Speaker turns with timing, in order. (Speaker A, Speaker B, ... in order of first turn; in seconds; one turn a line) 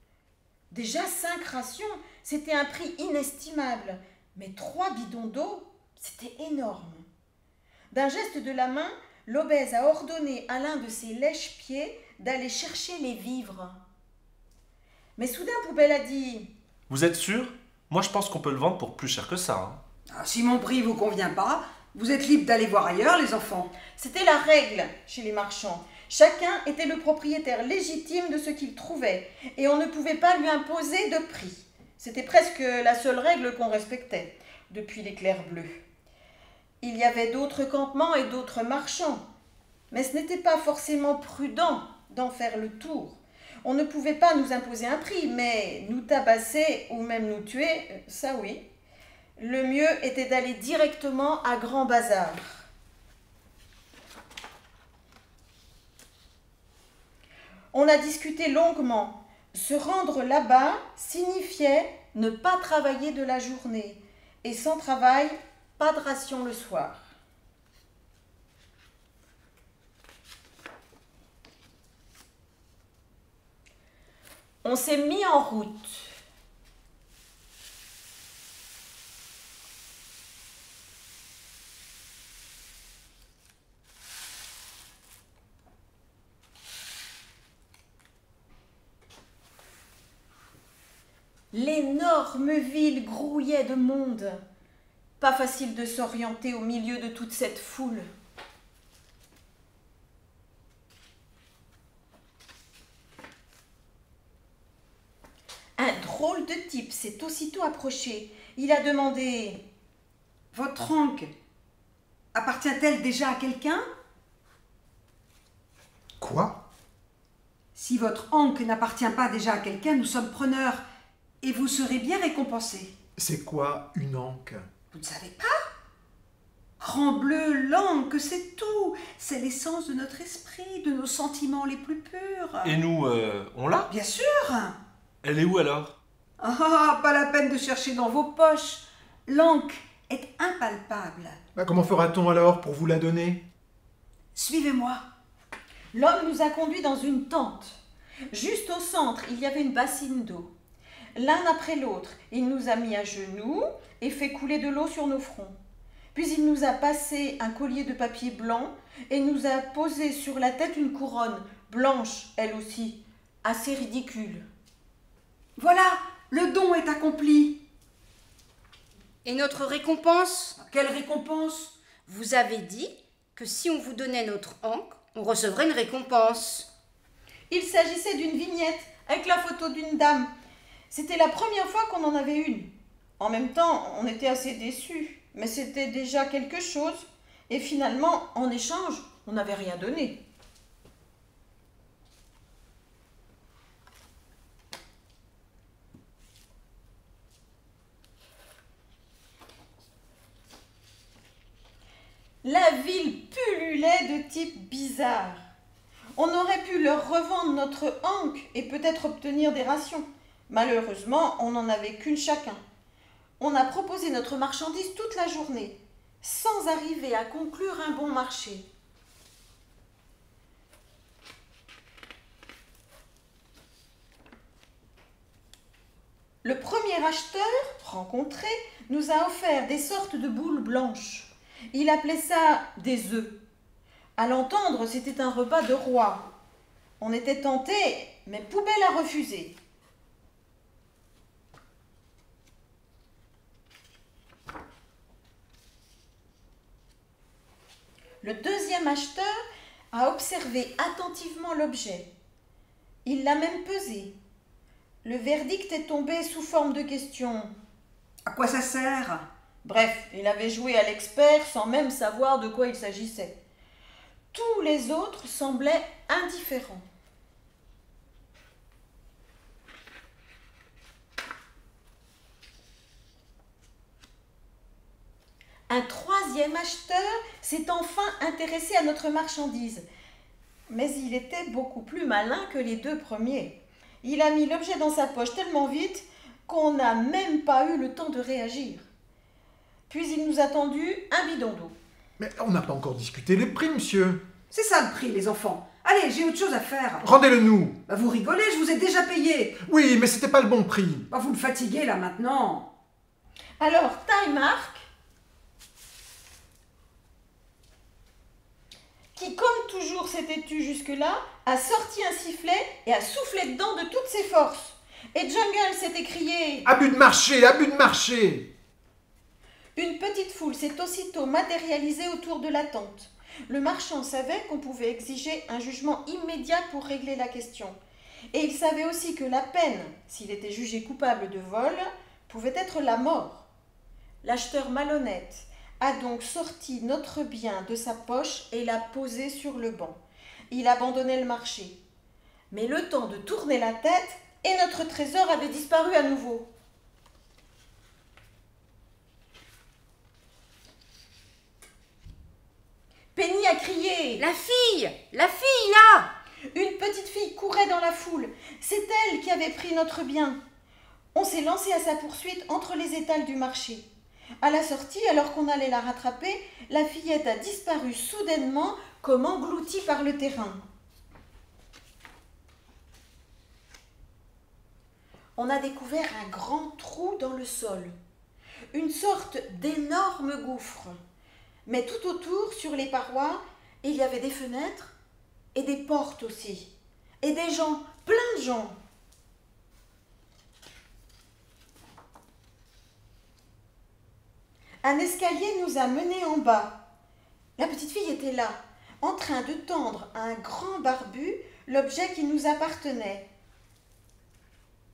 Speaker A: 0.7-7.0
Speaker A: 7.9-13.8
Speaker A: 15.2-16.5
Speaker B: 16.9-19.8
Speaker C: 20.1-23.7
Speaker A: 23.9-35.8
Speaker A: 36.8-39.2
Speaker A: 39.9-48.6
Speaker A: 49.4-52.7
Speaker A: 57.7-67.1
Speaker A: 74.6-76.1
Speaker A: 91.5-94.4
Speaker A: 95.2-98.1
Speaker A: 105.8-109.6
Speaker C: 110.5-111.3
Speaker C: 112.3-113.8
Speaker D: 116.2-116.6
Speaker C: 117.7-120.8
Speaker C: 121.4-122.9
Speaker D: 123.2-124.6
Speaker C: 124.9-125.6
Speaker C: 126.8-132.8
Speaker B: 132.6-133.9
Speaker C: 133.9-134.8
Speaker B: 135.2-135.9
Speaker C: 136.4-141.4
Speaker D: 141.6-143.4
Speaker C: 144.3-145.1
Speaker A: 145.9-150.5
Speaker A: 151.1-155.5
Speaker A: 156.1-164.4
Speaker C: 165.6-167.6
Speaker E: 169.2-170.6
Speaker C: 170.6-171.7
Speaker E: 172.1-176.7
Speaker A: 177.5-180.3
Speaker A: 180.9-190.2
Speaker A: 202.4-205.4
Speaker A: 206.2-212.6
Speaker A: 213.4-218.7
Speaker A: 226.4-233.4
Speaker A: 234.2-236.3
Speaker A: 237.0-239.6
Speaker A: 248.2-249.3
Speaker A: 249.9-252.1
Speaker A: 253.0-254.1
Speaker A: 255.0-257.5
Speaker C: 258.3-259.2
Speaker A: 259.6-263.4
Speaker A: 264.3-266.8
Speaker A: 275.7-279.8
Speaker A: 280.7-288.9
Speaker A: 289.9-291.7
Speaker D: 292.2-294.2
Speaker C: 294.5-297.1
Speaker D: 297.0-297.8
Speaker C: 297.9-299.6
Speaker D: 299.6-301.1
Speaker C: 301.1-302.7
Speaker A: 303.6-304.9
Speaker A: 309.1-316.7
Speaker D: 316.6-318.5
Speaker A: 319.8-327.8
Speaker A: 328.3-333.5
Speaker A: 334.2-340.0
Speaker A: 340.5-341.8
Speaker A: 342.5-346.5
Speaker A: 353.1-354.2
Speaker E: 354.2-356.1
Speaker A: 356.5-360.4
Speaker A: 361.1-363.9
Speaker A: 364.4-370.6
Speaker A: 375.4-377.9
Speaker A: 378.7-381.0
Speaker A: 381.6-384.9
Speaker A: 385.5-386.7
Speaker A: 387.2-388.8
Speaker A: 394.8-396.8
Speaker A: 397.6-403.3